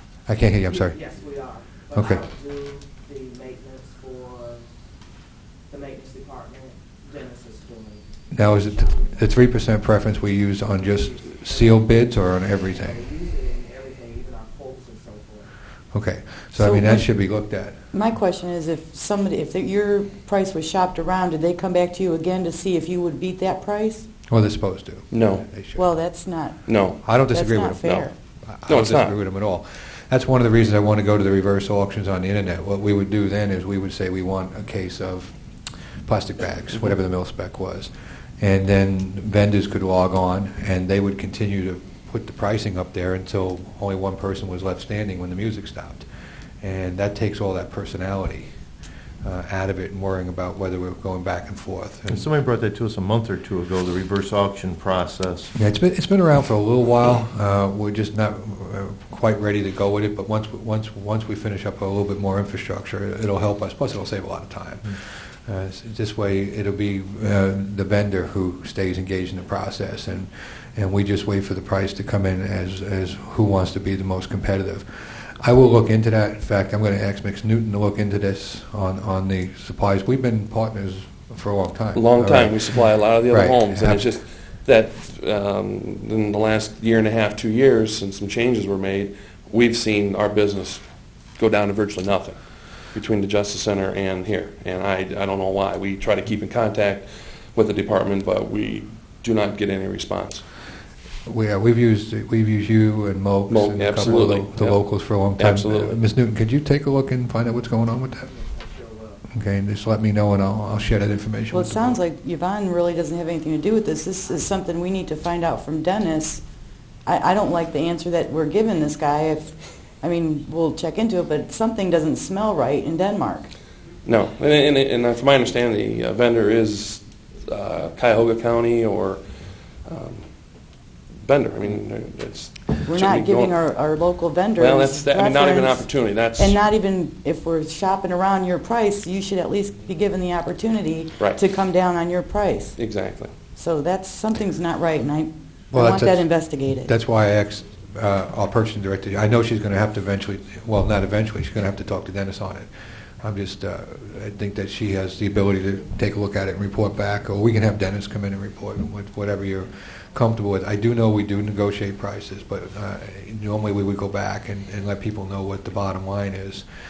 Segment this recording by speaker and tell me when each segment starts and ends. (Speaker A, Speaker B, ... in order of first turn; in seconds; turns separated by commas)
Speaker A: 0.3-1.0, Speaker B: 0.7-4.6, Speaker A: 1.9-2.2, Speaker B: 5.7-9.3, Speaker A: 8.3-13.0, Speaker B: 10.8-15.5, Speaker A: 15.9-17.8, Speaker C: 16.6-17.1, Speaker C: 17.9-24.1, Speaker A: 24.3-25.8, Speaker D: 25.1-25.4, Speaker C: 25.7-26.6, Speaker D: 26.6-27.1, Speaker A: 27.0-35.4, Speaker C: 27.3-28.1, Speaker D: 27.8-28.1, Speaker D: 28.6-29.1, Speaker A: 36.0-46.0, Speaker A: 46.6-48.5, Speaker A: 49.2-52.2, Speaker E: 52.1-55.5, Speaker A: 55.5-82.6, Speaker D: 81.9-90.8, Speaker A: 83.2-84.1, Speaker D: 91.3-92.4, Speaker D: 92.9-100.4, Speaker A: 101.2-108.3, Speaker D: 103.5-106.0, Speaker B: 108.2-109.2, Speaker A: 109.3-112.0, Speaker C: 111.5-116.4, Speaker C: 117.0-123.5, Speaker D: 124.0-129.2, Speaker D: 129.8-130.3, Speaker D: 131.2-133.6, Speaker C: 132.8-135.8, Speaker D: 134.6-136.6, Speaker C: 136.4-142.8, Speaker D: 142.8-143.3, Speaker C: 143.6-146.9, Speaker A: 145.7-152.7, Speaker A: 153.2-166.7